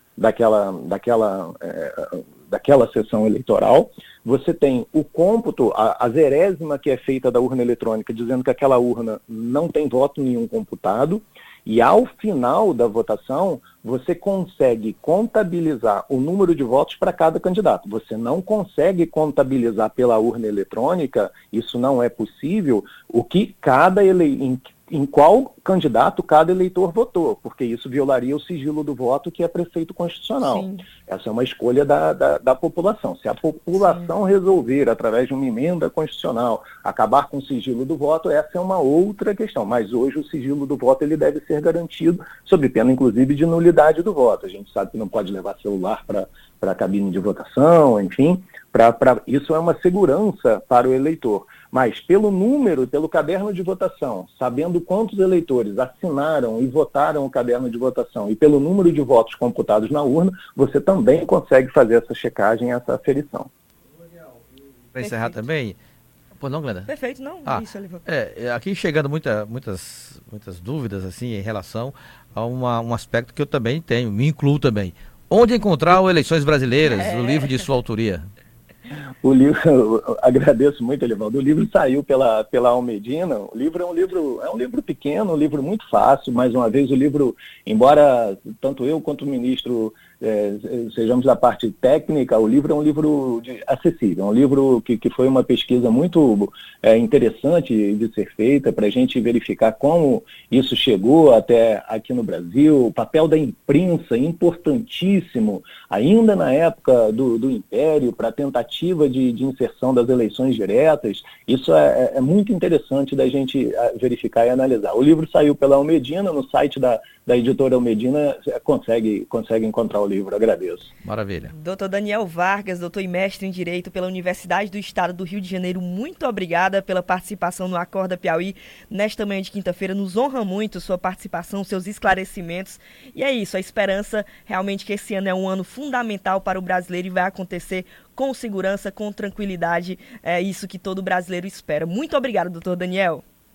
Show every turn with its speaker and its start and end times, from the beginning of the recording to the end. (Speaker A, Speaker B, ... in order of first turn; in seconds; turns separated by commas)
Speaker A: 0.2-63.5, Speaker B: 30.4-30.9, Speaker B: 33.8-34.1, Speaker C: 64.9-65.8, Speaker B: 65.0-65.4, Speaker C: 66.4-66.9, Speaker B: 66.9-68.0, Speaker C: 67.5-78.3, Speaker B: 76.8-77.4, Speaker A: 79.2-120.9, Speaker C: 121.0-121.5, Speaker B: 121.5-143.2